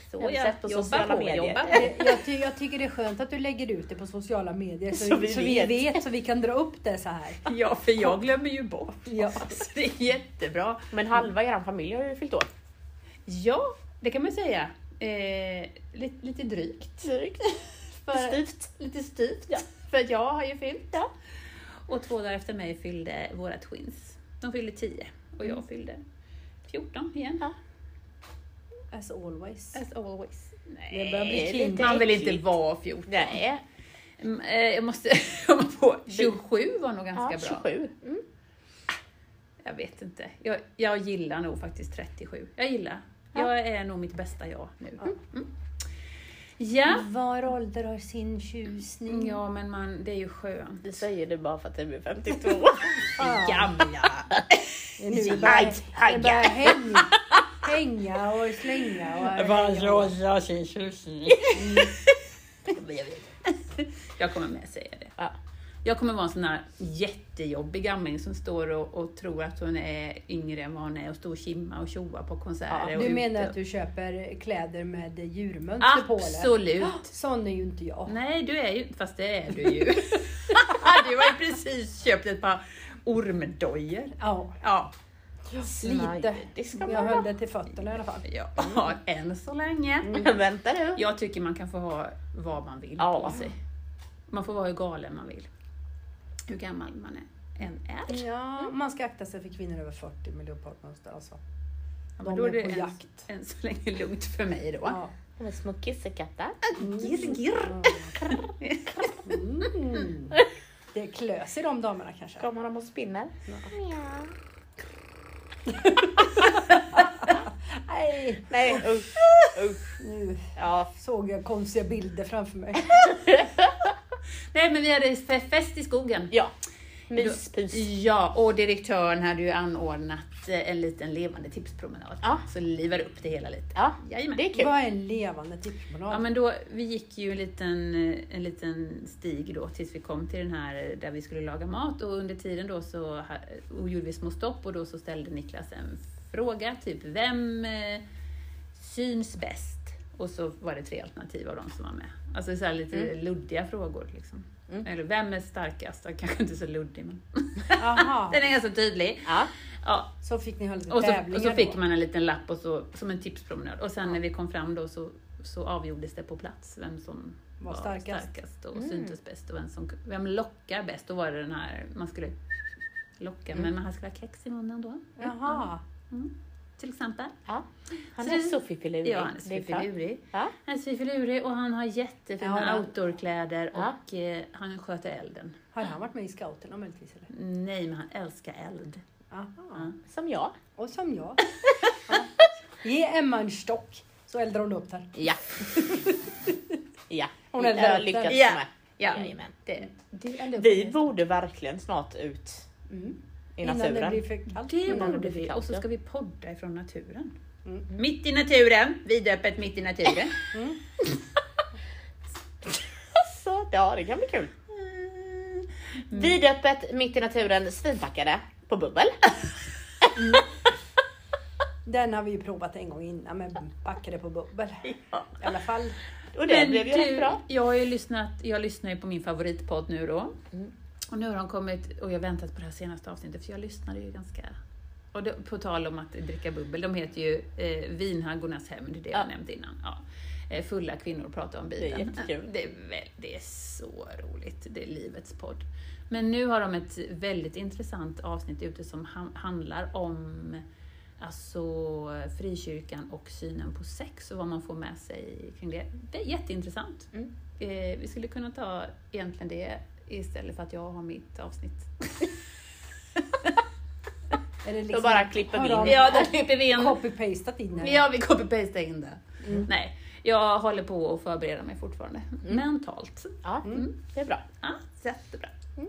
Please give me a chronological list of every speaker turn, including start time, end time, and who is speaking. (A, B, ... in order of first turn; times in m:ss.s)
0:00.1-0:02.2 A
0:00.2-0:02.0 B
0:01.7-0:07.5 C
0:04.9-0:06.0 B
0:07.4-0:10.9 A
0:09.0-0:09.6 C
0:10.9-0:12.5 B
0:13.3-0:17.2 A
0:17.0-0:17.5 B
0:18.0-0:21.1 A
0:18.1-0:18.7 B
0:21.9-0:26.0 A
0:26.7-0:27.5 A
0:28.9-0:29.8 C
0:29.7-0:33.4 A
0:30.9-0:32.0 C
0:31.2-0:32.5 B
0:33.1-0:33.6 B
0:34.2-0:37.7 A
0:37.2-0:38.2 B
0:39.6-0:45.5 A
0:46.6-0:47.1 A
0:46.9-0:49.4 C
0:49.1-0:50.9 A
0:50.8-0:53.1 B
0:53.1-0:55.7 A
0:53.2-0:53.8 C
0:55.0-1:00.1 C
0:55.4-0:56.8 B
0:59.3-1:02.0 A
1:01.5-1:02.0 C
1:02.6-1:05.2 A
1:05.8-1:13.5 A
1:12.7-1:13.1 B
1:13.0-1:18.1 C
1:15.8-1:17.1 A
1:18.1-1:24.9 A
1:24.2-1:24.6 C
1:25.6-1:28.8 C
1:25.6-1:27.2 B
1:28.2-1:30.3 A
1:30.0-1:30.3 C
1:30.1-1:31.0 B
1:31.0-1:33.6 A
1:33.0-1:33.4 B
1:34.3-1:35.5 A
1:36.5-1:38.3 A
1:38.1-1:41.4 C
1:42.2-1:45.0 A
1:42.2-1:43.3 C
1:44.8-1:45.1 C
1:45.4-1:46.7 B
1:46.6-1:49.2 A
1:46.8-1:48.4 C
1:49.2-1:50.4 C
1:50.9-1:52.5 C
1:52.4-1:54.3 B
1:55.7-1:58.9 C
1:56.7-1:57.0 A
1:58.5-1:59.9 B
2:00.0-2:03.4 C
2:00.6-2:00.9 B
2:02.9-2:03.9 B
2:04.5-2:06.3 A
2:07.1-2:07.8 B
2:07.2-2:14.4 A
2:13.8-2:14.7 B
2:14.5-2:16.2 C
2:16.1-2:28.0 A
2:28.8-2:40.1 A
2:37.8-2:38.5 C
2:39.2-2:39.5 B
2:40.2-2:41.8 C
2:40.9-2:52.4 A
2:47.6-2:48.3 C
2:48.8-2:49.1 B
2:53.2-2:57.4 A
2:55.2-2:55.8 C
2:57.5-3:00.5 B
2:58.0-3:05.6 A
3:02.4-3:02.9 C
3:05.8-3:07.3 C
3:07.3-3:09.0 A
3:09.3-3:09.9 C
3:10.0-3:10.6 B
3:10.8-3:11.5 C
3:12.0-3:16.6 C
3:15.2-3:16.1 B
3:17.1-3:19.5 B
3:17.5-3:18.4 C
3:18.3-3:21.1 A
3:20.5-3:22.7 B
3:22.9-3:25.2 C
3:23.6-3:24.2 B
3:24.6-3:27.4 A
3:24.9-3:25.8 B
3:27.9-3:30.4 A
3:30.5-3:30.8 C
3:33.1-3:34.6 B
3:34.7-3:36.4 A
3:36.1-3:40.1 B
3:40.1-3:40.4 C
3:41.8-3:46.0 C
3:46.3-3:47.4 B
3:46.4-3:50.4 A
3:51.1-3:54.6 A
3:55.1-4:10.6 A
4:01.8-4:02.5 B
4:11.2-4:22.4 A
4:23.2-4:23.6 A
4:24.6-4:28.0 C
4:24.9-4:26.3 B
4:25.8-4:27.0 A
4:27.8-4:33.9 A
4:33.4-4:34.4 B
4:34.6-4:35.5 A